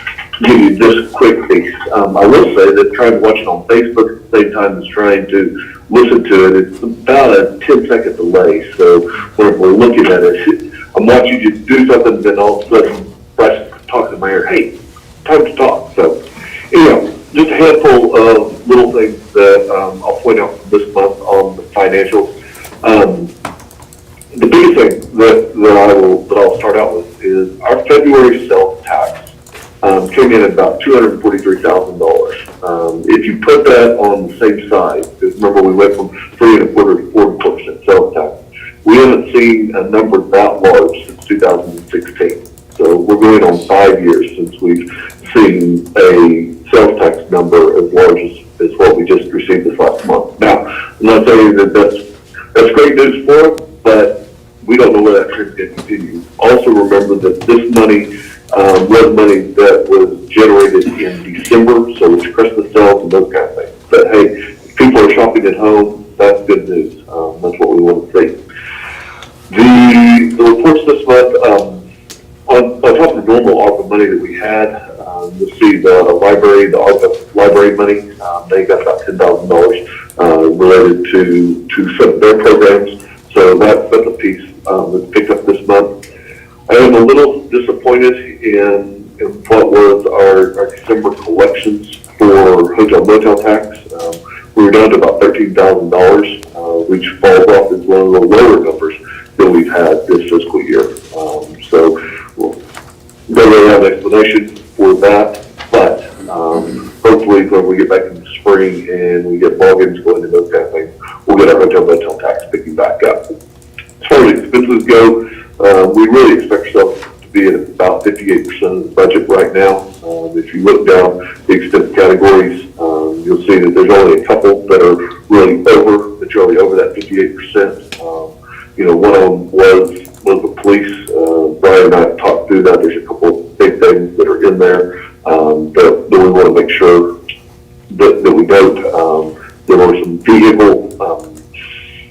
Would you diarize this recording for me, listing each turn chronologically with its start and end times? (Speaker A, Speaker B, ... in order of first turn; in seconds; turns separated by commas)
Speaker A: 0.4-14.7, Speaker A: 15.2-16.2, Speaker A: 16.7-22.3, Speaker A: 22.8-23.3, Speaker A: 24.3-29.2, Speaker A: 29.8-52.0, Speaker A: 52.5-68.3, Speaker A: 69.5-71.8, Speaker A: 72.5-85.9, Speaker A: 86.7-102.5, Speaker A: 103.3-113.3, Speaker A: 114.0-137.0, Speaker A: 137.9-141.4